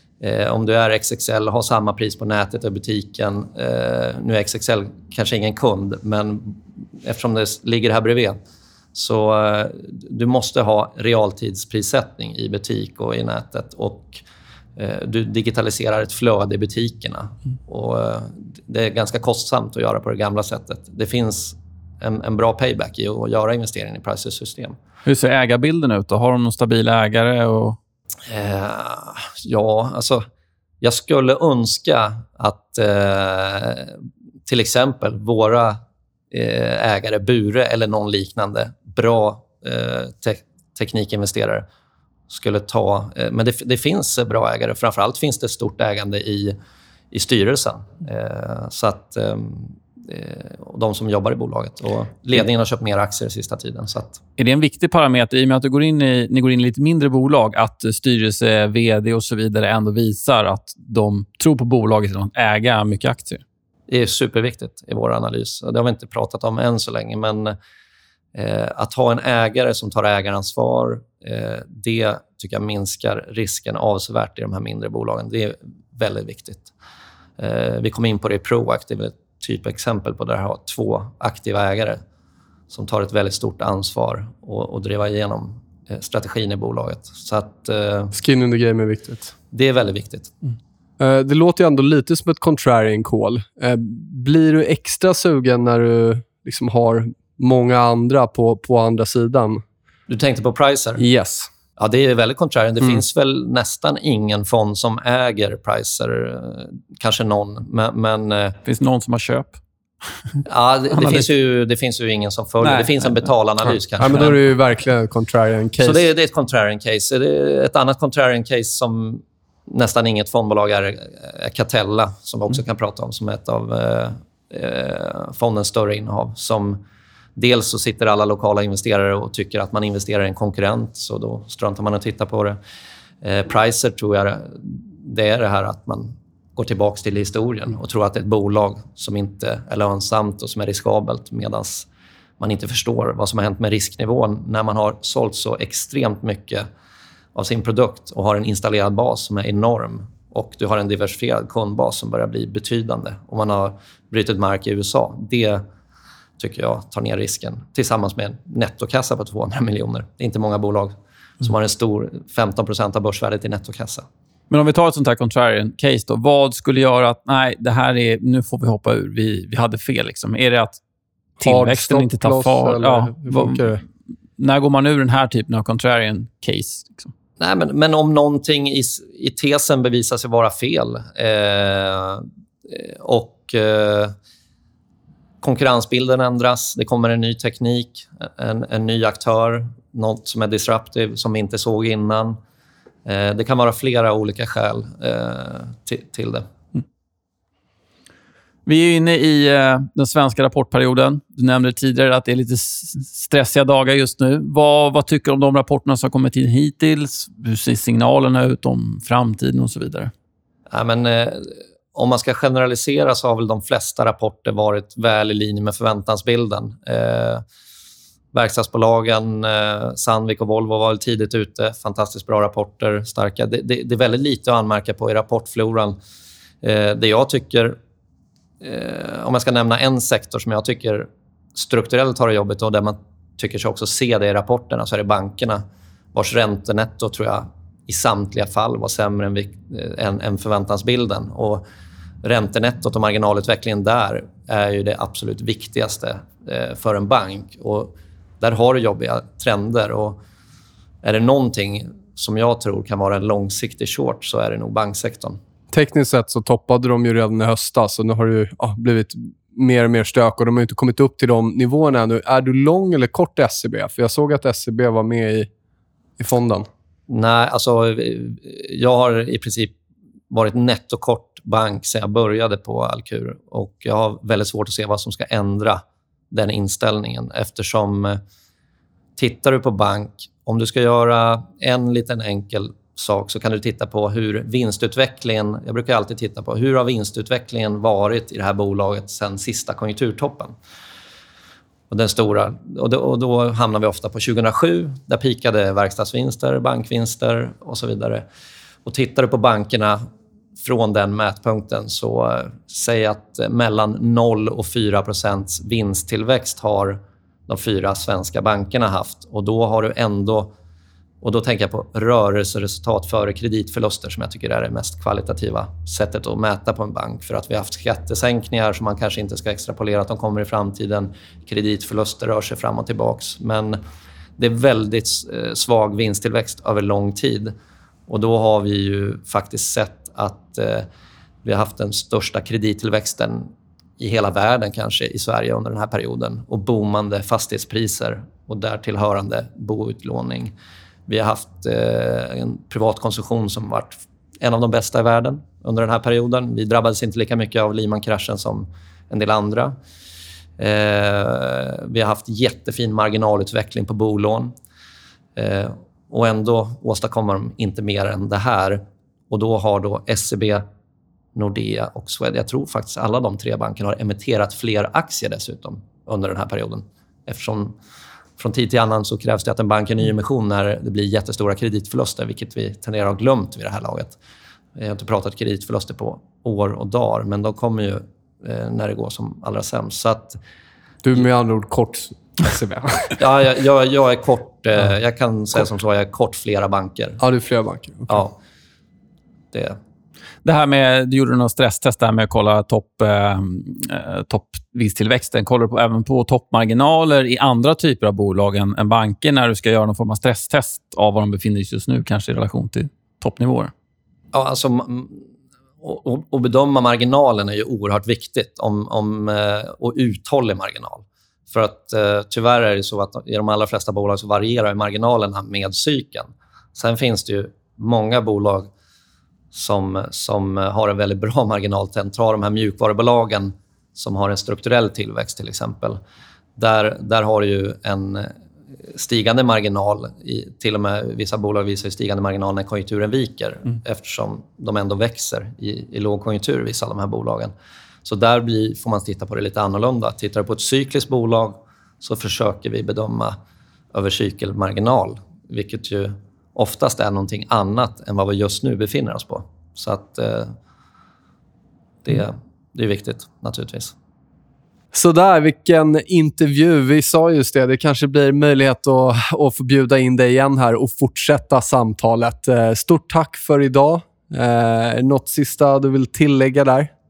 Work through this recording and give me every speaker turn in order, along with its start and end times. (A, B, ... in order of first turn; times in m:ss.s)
0:00.2-0:08.4 A
0:08.9-0:14.2 A
0:14.8-0:24.8 A
0:25.0-0:27.8 B
0:28.3-0:30.2 A
0:30.8-0:35.8 A
0:36.3-0:41.6 A
0:42.3-0:46.6 A
0:47.1-0:54.2 A
0:54.4-1:03.4 B
1:03.9-1:07.6 A
1:08.3-1:16.7 A
1:17.4-1:22.0 A
1:22.7-1:28.1 A
1:28.1-1:29.3 C
1:29.5-1:30.3 A
1:31.0-1:39.6 C
1:40.1-1:41.0 A
1:41.0-1:41.5 C
1:41.8-1:48.6 A
1:48.6-1:49.6 B
1:50.5-1:54.4 A
1:50.9-1:51.3 B
1:52.6-1:53.2 B
1:54.0-1:56.1 C
1:55.8-2:06.8 A
2:07.4-2:12.6 A
2:13.2-2:21.9 A
2:22.4-2:26.7 A
2:27.3-2:35.6 A
2:36.4-2:44.1 A
2:44.5-2:50.8 B
2:51.4-2:53.7 B
2:51.4-2:53.8 C
2:54.4-2:57.1 B
2:57.4-3:04.1 A
3:05.4-3:12.4 A
3:13.0-3:16.5 A
3:18.7-3:30.1 B
3:30.7-3:37.4 A
3:38.3-3:46.0 A
3:46.6-3:47.8 A
3:48.6-3:55.6 A
3:56.1-4:01.6 A
4:02.2-4:10.2 A
4:11.0-4:15.4 A
4:15.7-4:25.5 C
4:26.2-4:26.7 C
4:27.1-4:29.8 A
4:30.3-4:38.2 A
4:39.2-4:50.6 A
4:51.9-4:58.2 A
4:58.8-5:00.0 A
5:00.6-5:10.5 A
5:11.2-5:23.8 A
5:24.4-5:27.5 A
5:28.1-5:30.9 A
5:31.4-5:40.5 A
5:41.1-5:49.8 A
5:50.6-5:54.5 A
5:55.4-6:00.6 A
6:01.4-6:07.8 A
6:08.4-6:14.2 A
6:14.8-6:20.4 A
6:21.0-6:23.2 C
6:23.2-6:27.2 A
6:27.2-6:28.2 C
6:28.1-6:28.4 A
6:29.5-6:29.8 A
6:30.4-6:43.7 B
6:44.3-6:45.2 A
6:45.8-6:58.7 A
6:59.5-7:06.0 A
7:06.6-7:17.5 A
7:18.0-7:23.4 A
7:23.9-7:30.6 A
7:32.0-7:33.9 A
7:34.9-7:46.9 C